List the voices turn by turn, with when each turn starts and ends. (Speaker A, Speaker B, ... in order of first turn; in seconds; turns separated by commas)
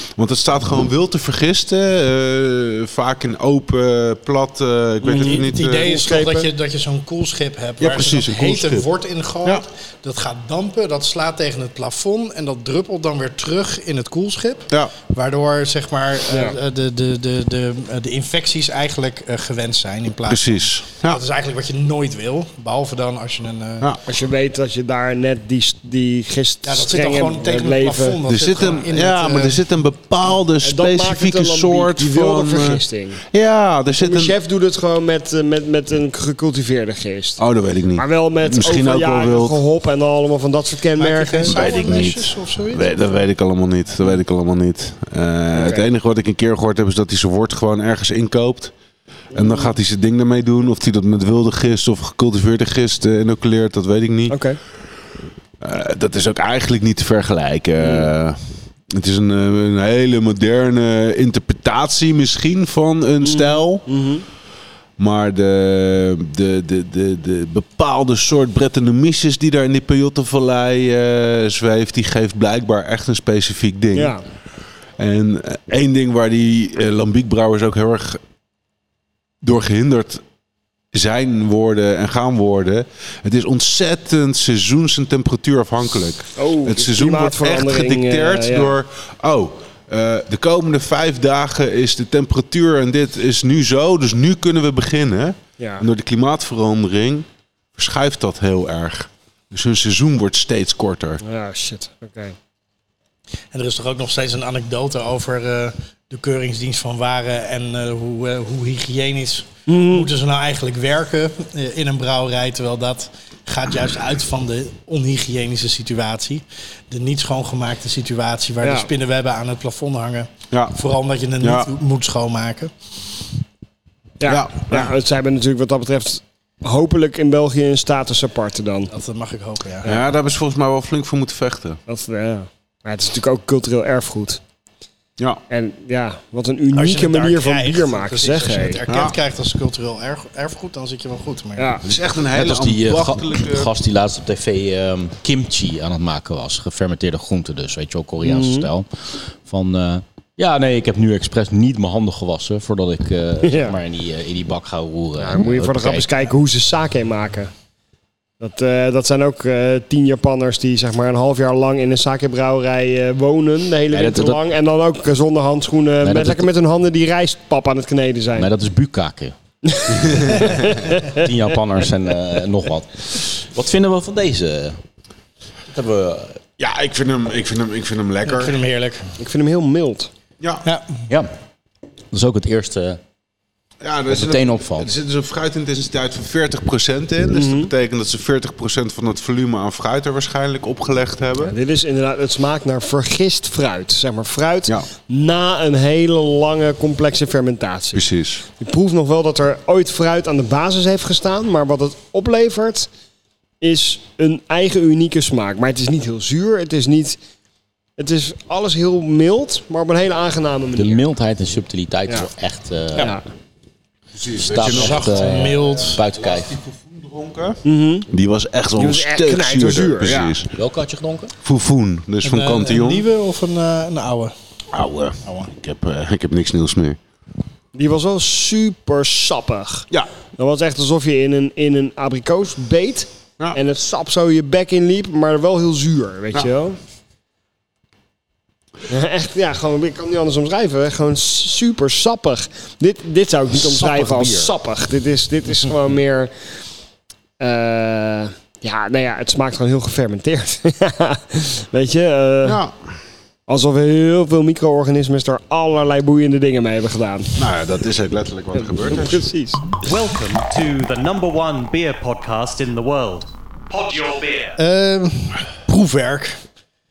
Speaker A: 0.2-5.9, Speaker B: 5.0-6.5, Speaker C: 5.2-23.9, Speaker A: 7.8-8.9, Speaker B: 16.3-16.6, Speaker A: 20.3-21.2, Speaker B: 24.0-28.2, Speaker C: 26.6-29.6, Speaker A: 28.2-34.3, Speaker B: 30.6-33.2, Speaker B: 34.0-37.4, Speaker A: 37.4-39.6, Speaker B: 37.9-41.8, Speaker C: 41.0-43.0, Speaker A: 41.5-48.7, Speaker B: 45.5-45.9, Speaker A: 49.3-54.4, Speaker B: 49.3-49.7, Speaker B: 54.3-54.6, Speaker A: 55.6-63.8, Speaker B: 57.8-58.1, Speaker B: 63.2-64.2, Speaker A: 65.0-74.2, Speaker B: 73.9-74.2, Speaker A: 75.0-78.2, Speaker A: 79.4-80.2, Speaker A: 80.9-101.2, Speaker B: 86.4-88.8, Speaker B: 95.6-95.9, Speaker B: 101.2-102.3, Speaker C: 103.5-122.7, Speaker B: 109.7-110.1, Speaker B: 118.6-118.9, Speaker A: 120.5-120.8, Speaker A: 121.4-121.7, Speaker B: 124.2-128.9, Speaker A: 124.2-124.9, Speaker C: 128.9-129.9, Speaker A: 129.8-131.8, Speaker B: 131.9-134.4, Speaker B: 135.5-138.8, Speaker C: 136.7-141.7, Speaker A: 138.9-139.2, Speaker B: 141.6-141.8, Speaker A: 141.8-143.7, Speaker D: 142.3-156.1, Speaker B: 148.2-148.7, Speaker B: 153.4-153.8, Speaker B: 155.2-157.5, Speaker B: 158.4-168.5, Speaker D: 163.9-164.4, Speaker D: 166.0-166.5, Speaker D: 168.4-169.3, Speaker B: 169.7-171.1, Speaker A: 170.1-170.5, Speaker D: 171.0-174.8, Speaker D: 175.7-176.4, Speaker A: 176.6-178.6, Speaker C: 178.2-179.1, Speaker B: 179.2-180.1, Speaker A: 180.4-180.7, Speaker D: 182.1-183.0, Speaker A: 183.8-191.5, Speaker D: 184.1-184.9, Speaker B: 187.3-187.7, Speaker B: 191.4-198.0, Speaker A: 197.9-198.4, Speaker B: 198.6-202.9, Speaker B: 203.6-207.2, Speaker B: 208.0-211.0, Speaker D: 210.8-213.1, Speaker B: 213.0-213.2, Speaker A: 214.1-220.5, Speaker D: 214.3-216.6, Speaker C: 214.6-216.0, Speaker B: 217.6-218.1, Speaker B: 218.8-220.3, Speaker D: 220.5-221.3, Speaker A: 221.4-223.0, Speaker C: 222.2-224.3, Speaker A: 224.7-227.0, Speaker C: 225.2-225.5, Speaker B: 227.7-236.8, Speaker B: 238.9-246.5, Speaker D: 243.6-244.5, Speaker B: 247.4-252.6, Speaker A: 252.4-252.8, Speaker B: 253.5-257.4, Speaker A: 257.4-259.3, Speaker B: 258.5-259.7, Speaker E: 259.8-264.6, Speaker C: 264.6-266.4